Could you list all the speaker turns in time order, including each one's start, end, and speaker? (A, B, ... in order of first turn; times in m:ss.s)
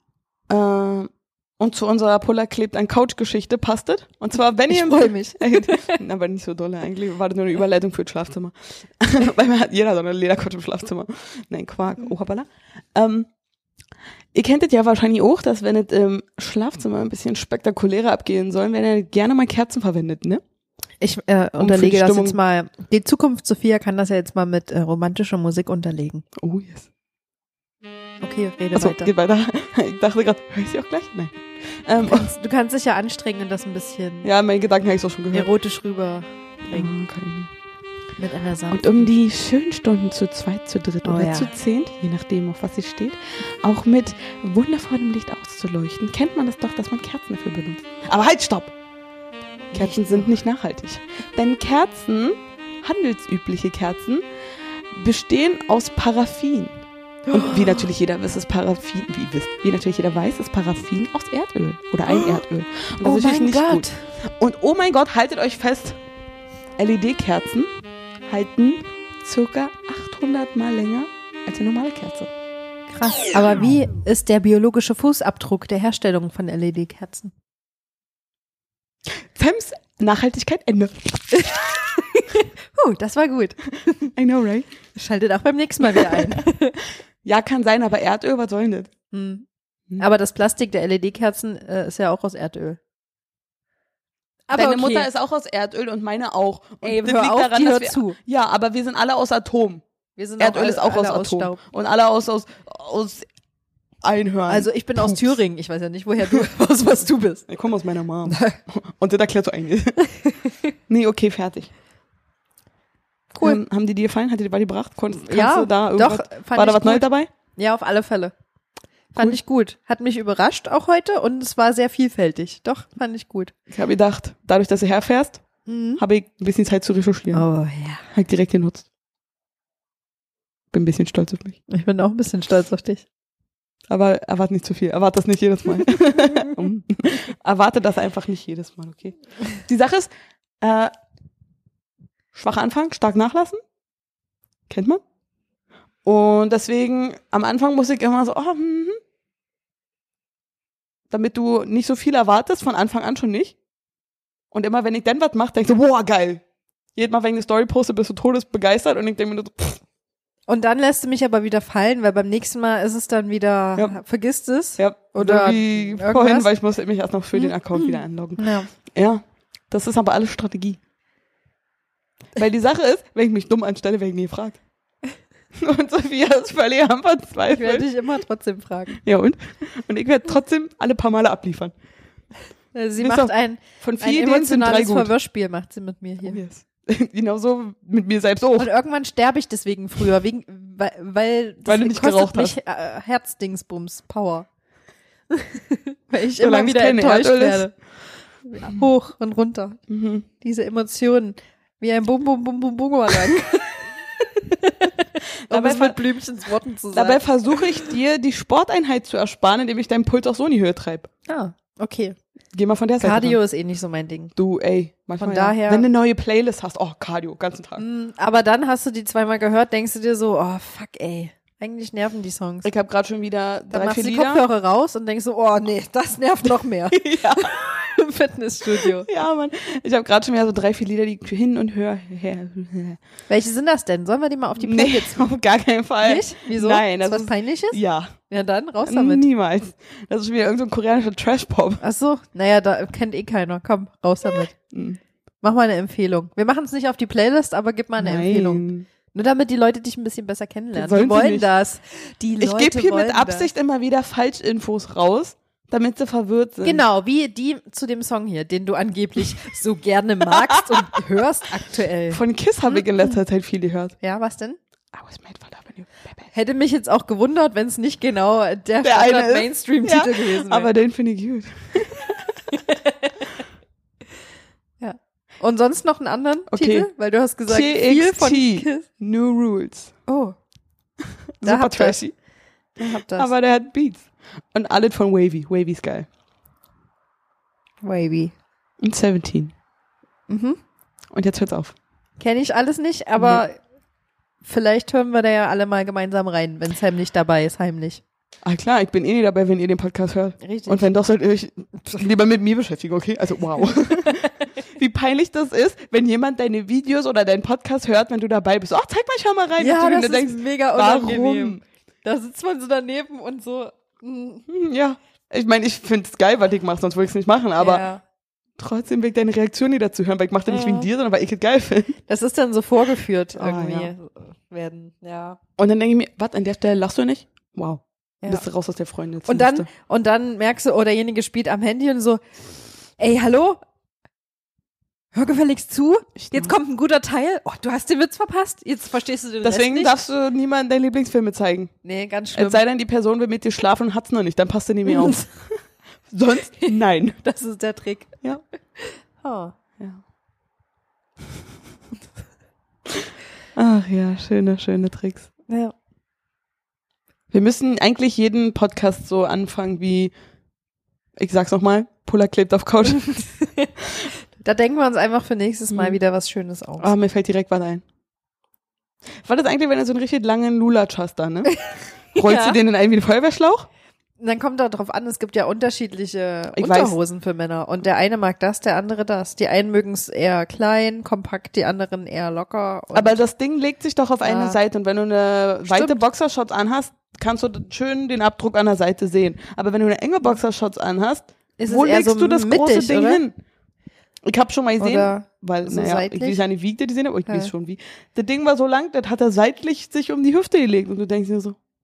0:00.5-0:13.3 A
0:04.7-0:06.0 B
0:14.3-0:20.4 A
0:21.0-0:26.2 B
0:21.6-0:22.4 A
0:26.4-0:26.9 A
0:28.2-0:29.1 B
0:28.8-0:32.3 A
0:32.0-0:34.3 B
0:34.2-0:35.5 A
0:35.3-0:36.9 B
0:36.7-0:37.5 A
0:38.2-0:39.1 B
0:38.7-0:48.7 A
0:41.0-0:41.5 B
0:49.7-0:54.2 A
0:49.7-0:50.3 B
0:54.9-1:06.0 A
0:57.3-0:57.8 B
1:02.1-1:02.4 B
1:03.0-1:04.0 B
1:06.8-1:07.7 A
1:08.3-1:12.3 A
1:12.9-1:17.3 B
1:19.4-1:21.5 A
1:21.4-1:24.1 B
1:24.2-1:24.7 A
1:24.9-1:26.8 B
1:25.9-1:26.4 A
1:27.2-1:28.9 A
1:29.1-1:29.5 B
1:30.0-1:32.8 B
1:34.5-1:35.1 B
1:34.5-1:39.8 A
1:36.8-1:38.2 B
1:40.2-1:41.6 B
1:40.4-1:43.3 A
1:44.0-1:45.3 A
1:44.5-1:47.5 B
1:47.5-1:50.0 A
1:48.3-1:48.6 B
1:50.1-1:50.6 B
1:50.9-1:51.7 A
1:53.3-1:57.3 A
1:55.2-1:58.3 B
1:59.1-2:03.5 B
2:03.7-2:05.4 A
2:05.7-2:06.0 B
2:06.0-2:07.4 A
2:07.3-2:08.0 B
2:08.1-2:08.9 A
2:10.7-2:11.6 A
2:11.7-2:13.0 B
2:13.9-2:20.1 A
2:20.6-2:20.9 A
2:22.3-2:23.6 A
2:24.7-2:25.0 A
2:26.0-2:29.0 A
2:31.1-2:33.6 A
2:34.5-2:36.4 A
2:37.0-2:39.8 A
2:40.5-2:46.5 B
2:44.8-2:50.8 A
2:47.4-2:48.7 B
2:52.4-2:54.6 A
2:55.6-2:57.9 A
2:57.5-2:59.0 B
2:59.0-3:01.7 A
3:02.7-3:06.4 B
3:03.0-3:05.1 A
3:06.2-3:08.7 A
3:08.6-3:14.5 B
3:11.7-3:12.6 A
3:15.3-3:17.7 B
3:16.4-3:17.7 A
3:18.4-3:19.8 B
3:19.9-3:20.3 A
3:20.4-3:27.6 B
3:25.5-3:26.0 A
3:26.9-3:31.1 A
3:31.3-3:32.2 B
3:32.5-3:33.4 A
3:33.0-3:34.3 B
3:34.4-3:37.8 A
3:35.2-3:35.9 B
3:37.8-3:42.7 B
3:42.6-3:44.4 A
3:43.7-3:49.1 B
3:46.9-3:47.9 A
3:48.8-3:53.0 A
3:53.3-3:55.3 B
3:54.6-3:58.1 A
3:56.0-3:59.2 B
3:58.9-4:01.8 A
4:01.8-4:04.5 B
4:04.4-4:05.0 A
4:05.4-4:13.5 B
4:08.0-4:08.9 A
4:10.7-4:11.5 A
4:12.4-4:16.8 A
4:16.6-4:23.1 B
4:20.3-4:20.9 A
4:22.1-4:24.0 A
4:24.0-4:24.6 B
4:24.9-4:26.3 A
4:26.3-4:30.7 B
4:28.8-4:32.3 A
4:32.5-4:33.1 B
4:34.8-4:38.9 B
4:36.5-4:36.9 A
4:37.5-4:39.9 A
4:40.1-4:40.4 B
4:41.4-4:42.1 A
4:41.4-4:42.0 B
4:42.8-4:43.3 B
4:43.2-4:46.1 A
4:47.8-4:48.3 B
4:48.8-4:49.5 A
4:50.3-4:50.6 B
4:51.1-4:51.8 A
4:52.2-4:53.6 B
4:54.4-4:58.0 B
4:58.4-5:11.6 A
5:00.4-5:00.9 B
5:03.6-5:04.3 B
5:09.6-5:14.4 B
5:14.5-5:17.8 A
5:17.6-5:18.0 B
5:18.6-5:22.0 A
5:20.5-5:20.9 B
5:22.1-5:25.4 B
5:23.4-5:23.9 A
5:25.6-5:29.7 A
5:29.3-5:32.2 B
5:33.0-5:33.6 B
5:35.1-5:40.0 B
5:36.2-5:36.5 A
5:39.4-5:41.7 A
5:41.8-5:42.6 B
5:42.4-5:45.4 A
5:44.9-5:45.2 B
5:46.1-5:47.2 A
5:46.6-5:48.2 B
5:48.8-5:49.5 B
5:53.6-5:55.3 A
5:55.5-5:55.7 B
5:57.3-6:00.1 A
6:01.2-6:03.2 A
6:03.1-6:03.7 B
6:04.4-6:06.9 B
6:05.7-6:06.0 A
6:06.8-6:07.8 A
6:09.2-6:11.6 A
6:11.5-6:12.6 B
6:12.1-6:13.7 A
6:14.2-6:23.2 B
6:16.6-6:17.0 A
6:22.9-6:33.3 A
6:24.2-6:24.6 B
6:25.7-6:26.0 B
6:31.6-6:33.2 B
6:34.3-6:41.6 A
6:34.8-6:36.4 B